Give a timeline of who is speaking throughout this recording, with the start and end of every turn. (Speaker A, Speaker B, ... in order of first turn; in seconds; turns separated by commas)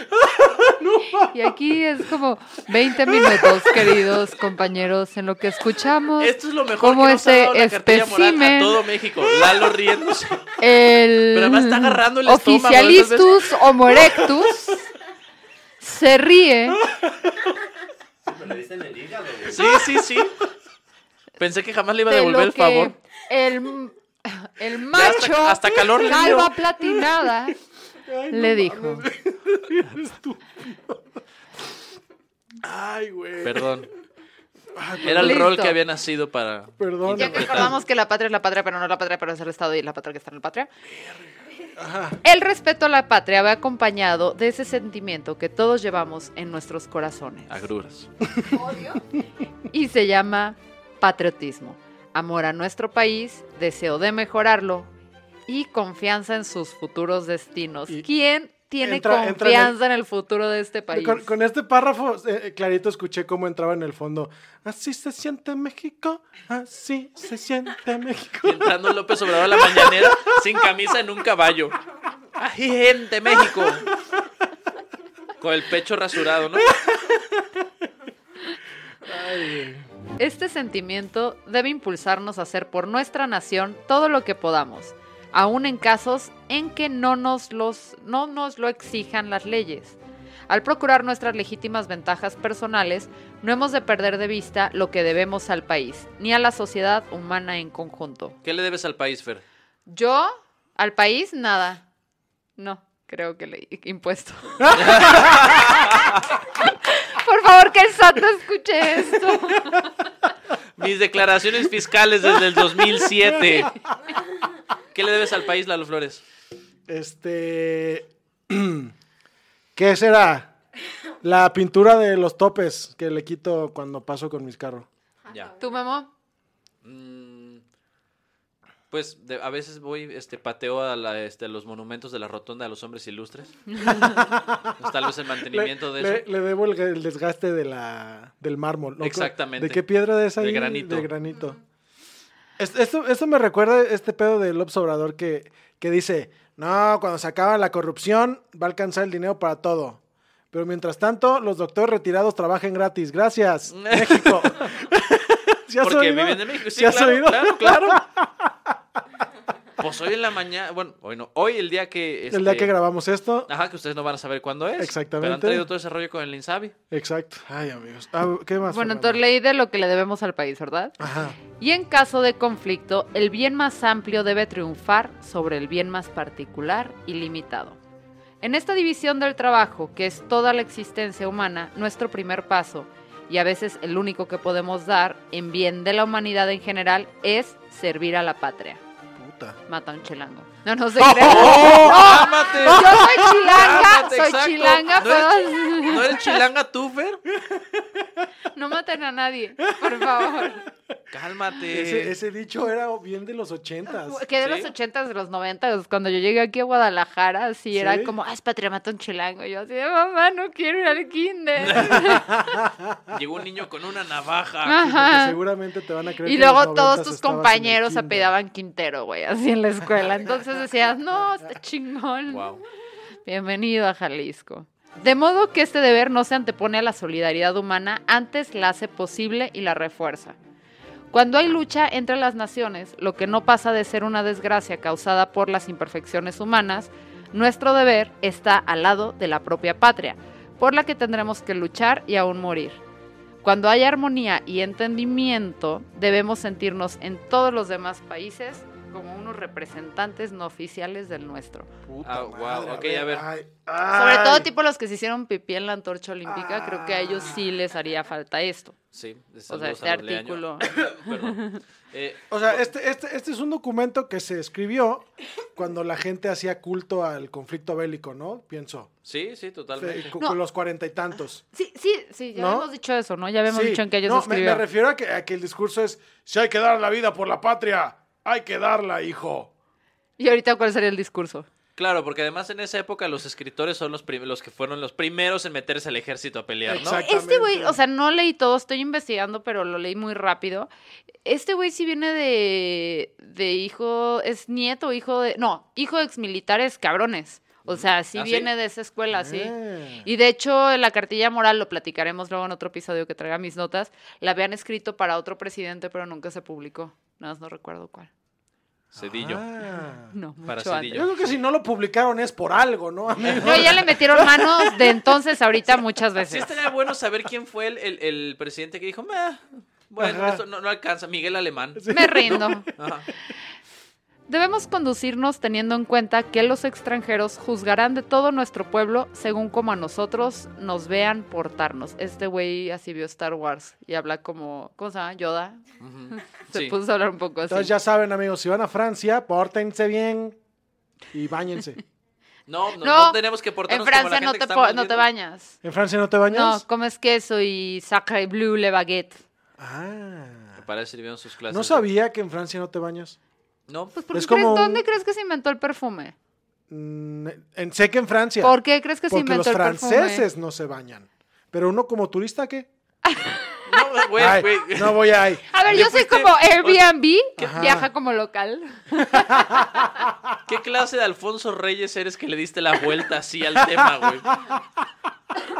Speaker A: 0.2-1.2, Speaker B: 1.1-8.8, Speaker A: 3.2-4.0, Speaker C: 6.2-10.4, Speaker B: 10.6-14.8, Speaker C: 11.3-13.5, Speaker B: 15.8-16.8, Speaker A: 17.0-17.5, Speaker C: 18.4-20.4, Speaker A: 19.5-19.9, Speaker C: 21.4-22.9, Speaker B: 22.1-27.5, Speaker C: 24.9-26.5, Speaker A: 25.7-27.5, Speaker A: 28.1-31.0, Speaker B: 28.3-29.0, Speaker A: 32.6-33.7, Speaker C: 33.4-33.9, Speaker A: 34.7-35.5, Speaker C: 35.0-37.7, Speaker B: 35.2-35.8, Speaker A: 36.8-37.7, Speaker B: 37.2-40.7, Speaker A: 41.8-42.2, Speaker B: 42.2-47.7, Speaker C: 47.5-48.1, Speaker A: 48.4-48.6, Speaker B: 49.7-54.9, Speaker B: 55.5-61.3, Speaker A: 58.8-59.8, Speaker A: 60.9-68.8, Speaker C: 68.4-71.8, Speaker A: 69.4-70.3, Speaker C: 72.3-73.9, Speaker C: 75.4-76.7, Speaker A: 76.8-77.5, Speaker A: 79.0-79.8, Speaker B: 80.2-90.0, Speaker B: 90.5-98.3, Speaker C: 98.4-99.4, Speaker B: 99.9-101.8, Speaker B: 102.6-105.7, Speaker C: 104.7-106.2, Speaker B: 106.6-109.9, Speaker C: 110.8-113.7, Speaker C: 114.9-116.2, Speaker A: 116.9-118.9, Speaker A: 119.7-120.5, Speaker A: 121.2-124.9, Speaker B: 125.6-126.1, Speaker C: 126.8-127.6, Speaker C: 128.9-133.5, Speaker B: 133.7-134.2, Speaker A: 133.8-134.8, Speaker C: 134.8-136.2, Speaker A: 135.5-141.6, Speaker C: 139.0-139.8, Speaker C: 140.3-141.1, Speaker A: 142.6-150.0, Speaker A: 150.5-158.7, Speaker C: 153.7-154.7, Speaker C: 155.8-158.0, Speaker C: 159.8-162.7, Speaker A: 162.3-163.5, Speaker C: 163.5-166.7, Speaker A: 164.8-165.7, Speaker A: 166.9-169.2, Speaker B: 168.7-170.9, Speaker A: 171.0-171.4, Speaker B: 171.5-177.8, Speaker B: 178.4-188.8, Speaker A: 189.2-189.6, Speaker B: 189.7-196.2, Speaker A: 191.0-193.4, Speaker C: 191.1-197.2, Speaker A: 197.3-197.9, Speaker B: 198.5-200.6, Speaker A: 199.8-200.5, Speaker C: 201.1-202.1, Speaker A: 201.7-204.2, Speaker B: 203.9-212.6, Speaker C: 204.4-204.7, Speaker A: 207.7-208.1, Speaker C: 211.6-212.2, Speaker A: 212.1-213.1, Speaker C: 213.1-214.8, Speaker B: 214.6-215.4, Speaker A: 214.8-218.3, Speaker B: 216.2-222.5, Speaker C: 222.3-222.6, Speaker B: 223.2-230.3, Speaker B: 231.1-242.8, Speaker B: 243.4-251.7, Speaker A: 251.8-254.5, Speaker C: 252.0-253.3, Speaker B: 253.9-258.8, Speaker A: 256.2-257.5, Speaker C: 258.9-262.7, Speaker B: 259.5-260.7, Speaker A: 262.3-268.9, Speaker C: 269.0-270.1, Speaker A: 269.8-271.4, Speaker B: 271.5-274.6, Speaker A: 272.3-272.7, Speaker A: 273.5-279.5, Speaker B: 280.2-281.5, Speaker C: 281.8-287.0, Speaker A: 286.7-287.8, Speaker B: 286.8-290.7, Speaker B: 291.2-308.1, Speaker C: 297.7-298.5, Speaker A: 299.1-300.1, Speaker C: 308.9-309.4, Speaker A: 308.9-310.1, Speaker B: 310.1-311.0, Speaker C: 310.5-311.3, Speaker A: 310.9-315.0, Speaker C: 313.2-313.8, Speaker B: 313.4-316.5, Speaker C: 316.2-323.1, Speaker A: 320.0-320.4, Speaker A: 321.7-323.1, Speaker B: 321.9-322.7, Speaker B: 324.3-335.6, Speaker C: 335.8-336.8, Speaker B: 336.2-337.7, Speaker A: 337.5-340.4, Speaker A: 341.1-341.8, Speaker C: 342.5-345.0, Speaker B: 342.8-345.6, Speaker A: 345.6-346.6, Speaker B: 346.3-349.2, Speaker A: 349.6-350.6, Speaker C: 350.6-351.9, Speaker A: 351.5-353.2, Speaker C: 353.7-353.9, Speaker B: 353.9-356.1, Speaker A: 354.1-354.9, Speaker A: 356.7-358.5, Speaker B: 358.4-360.3, Speaker A: 359.1-362.7, Speaker B: 363.1-363.6, Speaker C: 363.6-365.0, Speaker A: 364.1-365.8, Speaker B: 365.5-370.0, Speaker C: 365.6-366.8, Speaker C: 367.4-367.8, Speaker A: 367.4-367.9, Speaker A: 369.1-369.8, Speaker C: 370.4-374.4